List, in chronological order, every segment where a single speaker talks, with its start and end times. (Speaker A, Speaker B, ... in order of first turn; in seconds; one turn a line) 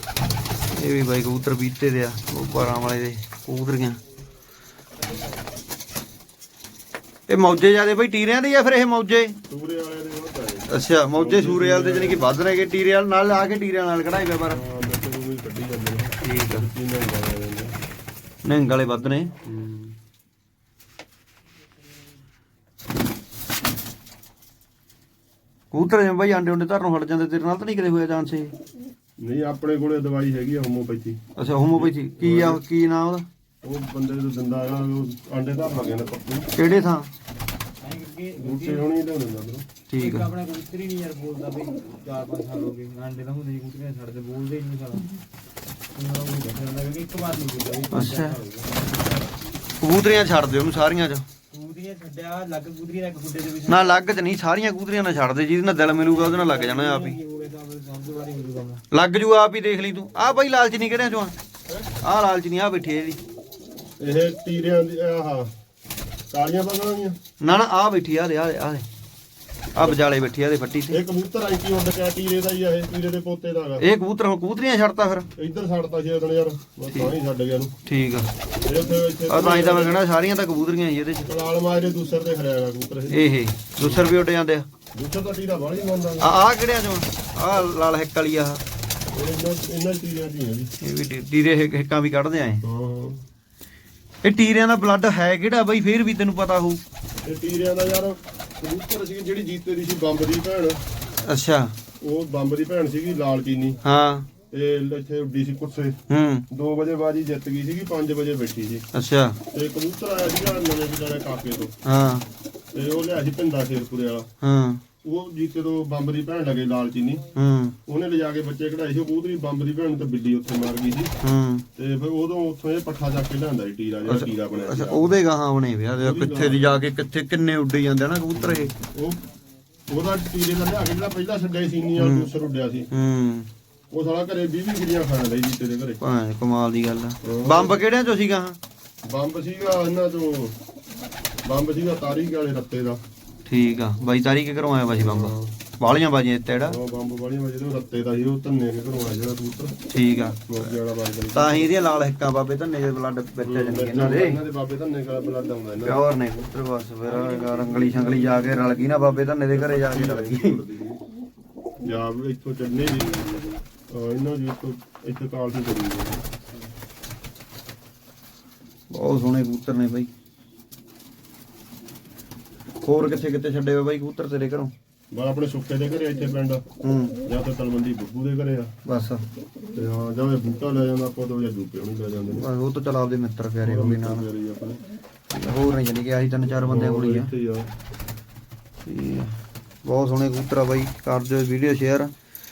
Speaker A: 0.7-4.0
Speaker A: 7.3-9.3
Speaker B: 9.5-12.3
Speaker A: 10.7-14.6
Speaker B: 14.5-17.7
Speaker A: 16.2-16.7
Speaker A: 18.4-19.3
Speaker B: 19.4-19.9
Speaker A: 25.7-28.5
Speaker B: 29.2-31.2
Speaker A: 31.4-33.2
Speaker B: 31.7-32.6
Speaker B: 33.6-36.5
Speaker A: 36.5-37.1
Speaker C: 37.8-38.8
Speaker B: 38.4-39.6
Speaker A: 39.9-40.3
Speaker C: 40.0-45.1
Speaker C: 45.9-49.4
Speaker A: 47.9-48.4
Speaker A: 49.8-51.2
Speaker C: 51.5-54.0
Speaker A: 53.6-57.2
Speaker C: 56.0-58.8
Speaker A: 58.9-61.3
Speaker A: 61.9-63.2
Speaker B: 64.0-65.5
Speaker B: 66.3-67.2
Speaker A: 67.4-68.8
Speaker A: 69.7-71.0
Speaker B: 70.9-73.8
Speaker A: 73.8-75.3
Speaker B: 75.3-77.7
Speaker A: 77.8-78.3
Speaker B: 78.6-80.0
Speaker A: 79.3-81.3
Speaker B: 81.3-84.1
Speaker A: 83.1-84.7
Speaker B: 84.9-86.4
Speaker A: 86.2-88.6
Speaker B: 89.1-90.7
Speaker A: 90.8-92.6
Speaker B: 92.6-93.2
Speaker A: 94.2-96.8
Speaker B: 97.2-100.8
Speaker A: 101.2-101.7
Speaker B: 102.0-103.8
Speaker A: 103.8-104.3
Speaker B: 104.5-106.0
Speaker A: 106.1-106.4
Speaker B: 106.5-108.8
Speaker A: 108.9-109.4
Speaker B: 109.5-111.7
Speaker A: 111.8-112.3
Speaker B: 112.7-114.3
Speaker A: 114.4-114.8
Speaker B: 115.0-117.2
Speaker A: 117.3-117.8
Speaker B: 117.9-121.1
Speaker A: 121.2-121.6
Speaker B: 121.8-125.1
Speaker A: 124.1-128.7
Speaker B: 126.0-126.8
Speaker B: 128.3-129.2
Speaker B: 129.9-132.9
Speaker A: 132.0-132.3
Speaker A: 132.9-133.5
Speaker B: 133.9-136.0
Speaker A: 136.0-138.6
Speaker B: 137.2-137.8
Speaker B: 139.0-140.6
Speaker B: 141.4-143.0
Speaker A: 143.4-146.8
Speaker B: 145.0-145.6
Speaker B: 146.6-149.7
Speaker A: 149.9-150.7
Speaker B: 150.5-151.7
Speaker A: 151.3-154.4
Speaker B: 153.4-156.1
Speaker A: 155.8-160.6
Speaker B: 157.2-158.4
Speaker B: 159.5-161.0
Speaker B: 161.8-166.2
Speaker A: 168.9-170.1
Speaker A: 172.8-174.7
Speaker B: 175.1-176.6
Speaker A: 176.8-177.2
Speaker B: 177.2-178.7
Speaker A: 178.8-179.2
Speaker B: 179.7-182.5
Speaker A: 182.3-184.2
Speaker B: 183.6-184.8
Speaker A: 185.3-187.3
Speaker B: 186.6-187.7
Speaker A: 188.8-192.1